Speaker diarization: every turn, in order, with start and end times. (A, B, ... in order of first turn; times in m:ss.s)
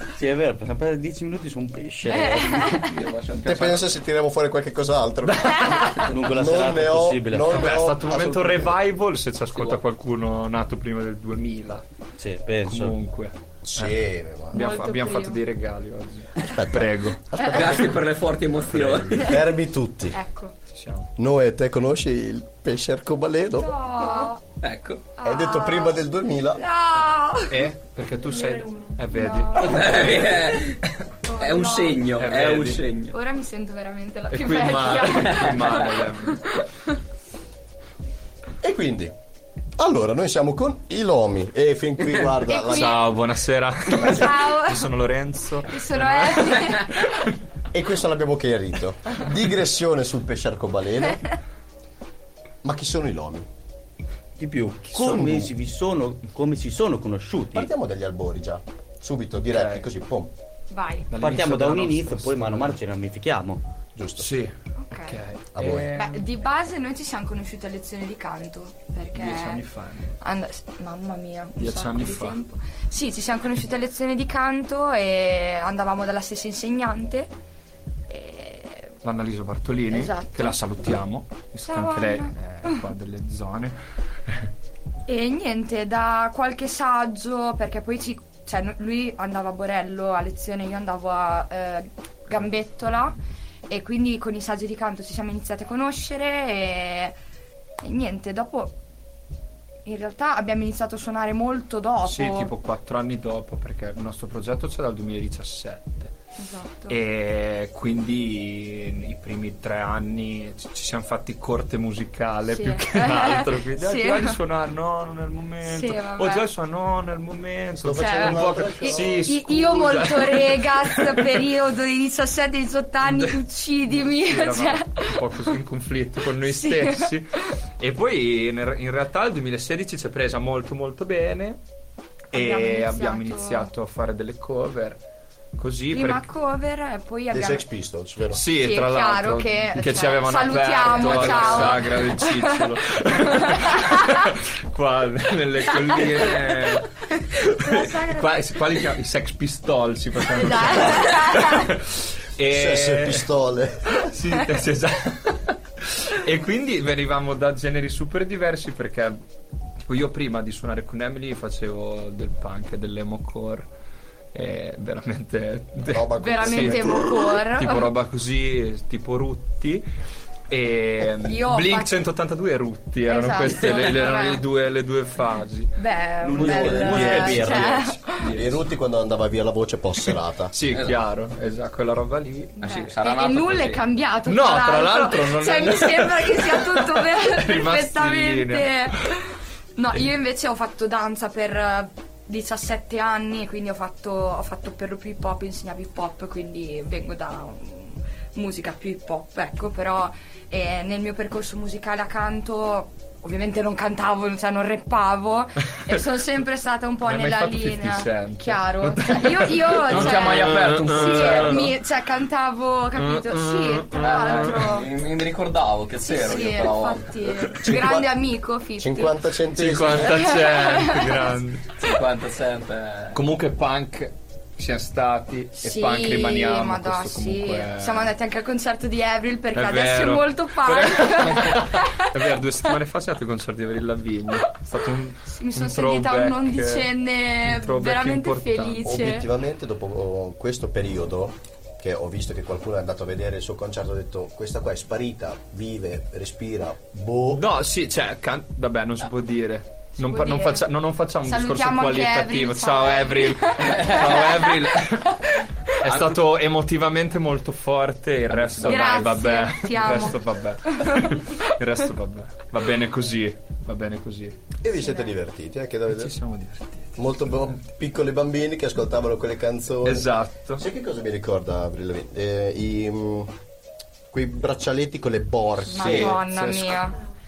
0:00.1-0:02.8 A
0:02.1-0:02.9 B
0:02.7-0:03.9 C
0:03.4-0:08.8 D
0:05.5-0:05.8 E
0:06.1-0:07.6 A
0:07.5-0:11.8 E
0:12.2-0:13.0 A
0:12.6-0:14.0 E
0:13.6-0:14.6 D
0:14.5-0:17.2 E
0:14.5-0:15.4 B
0:16.4-0:18.0 D
0:17.4-0:19.3 C
0:18.7-0:20.2 D
0:20.1-0:20.5 B
0:20.7-0:21.1 E
0:21.2-0:23.7 D
0:23.6-0:24.4 B
0:24.6-0:25.0 C
0:25.2-0:26.0 B
0:25.2-0:26.6 D
0:26.5-0:27.7 B
0:27.5-0:30.1 E
0:28.4-0:30.5 B
0:29.6-0:30.8 C
0:31.2-0:32.0 B
0:31.4-0:33.2 C
0:32.2-0:32.8 E
0:33.1-0:36.9 B
0:34.3-0:36.6 E
0:35.1-0:35.8 C
0:38.6-0:39.1 D
0:39.8-0:43.1 D
0:42.4-0:43.1 B
0:42.6-0:47.3 E
0:43.9-0:44.9 B
0:45.7-0:47.2 B
0:47.7-0:51.2 D
0:52.6-0:53.5 D
0:54.4-0:57.7 A
0:55.0-0:55.5 D
0:57.5-1:00.3 D
0:59.5-0:59.8 E
1:00.7-1:01.1 B
1:01.1-1:02.8 E
1:01.2-1:03.6 A
1:03.9-1:04.4 D
1:04.2-1:06.2 E
1:04.8-1:05.2 B
1:05.5-1:05.9 D
1:05.9-1:09.6 B
1:09.1-1:10.1 E
1:10.2-1:17.3 B
1:11.6-1:12.4 E
1:18.1-1:18.9 B
1:19.0-1:24.5 E
1:19.9-1:20.6 B
1:21.6-1:22.8 B
1:25.1-1:33.2 B
1:33.7-1:37.2 B
1:37.8-1:38.7 B
1:39.8-1:42.5 B
1:42.0-1:46.1 E
1:46.4-1:47.0 B
1:46.9-2:01.5 E
1:52.5-1:54.4 B
1:55.6-1:56.5 B
1:57.8-1:59.3 D
1:58.0-2:05.5 B
2:03.0-2:03.3 E
2:03.9-2:11.6 E
2:06.4-2:07.6 B
2:12.3-2:13.7 B
2:12.3-2:15.0 E
2:15.6-2:16.2 E
2:15.9-2:17.6 B
2:17.3-2:18.4 D
2:18.3-2:33.3 E
2:18.5-2:24.3 B
2:21.1-2:21.7 D
2:25.9-2:26.5 B
2:27.2-2:28.5 B
2:30.3-2:31.7 B
2:32.5-2:34.1 D
2:33.9-2:39.2 E
2:39.8-2:43.7 E
2:44.3-2:49.8 E
2:45.9-2:47.4 D
2:46.2-2:47.9 B
2:50.5-2:55.7 E
2:51.2-2:52.0 B
2:53.0-2:54.4 B
2:55.8-2:58.3 B
2:56.2-2:57.8 A
2:56.3-3:00.5 D
2:56.6-2:58.6 E
3:00.5-3:02.6 E
3:02.6-3:34.9 B
3:02.6-3:03.8 C
3:04.2-3:09.1 E
3:25.8-3:26.0 E
3:27.0-3:31.7 E
3:29.9-3:31.7 C
3:33.0-3:34.7 E
3:34.0-3:37.5 C
3:36.0-3:39.2 B
3:37.7-3:38.0 D
3:38.8-3:40.2 D
3:39.5-3:41.8 E
3:40.0-3:41.4 B
3:41.8-3:43.2 C
3:43.1-3:48.1 E
3:45.6-3:52.3 B
3:49.5-3:59.0 E
3:55.2-3:59.3 B
3:58.8-4:07.4 D
4:07.3-4:15.2 E
4:10.0-4:10.7 B
4:11.2-4:15.4 B
4:13.6-4:14.2 C
4:15.7-4:24.4 E
4:15.8-4:16.2 C
4:18.3-4:18.8 C
4:18.6-4:21.5 B
4:24.6-4:26.2 D
4:24.8-4:25.1 B
4:25.9-4:27.0 E
4:27.0-4:33.3 D
4:29.8-4:30.6 E
4:34.1-4:36.2 D
4:35.7-4:37.0 B
4:35.8-4:36.9 E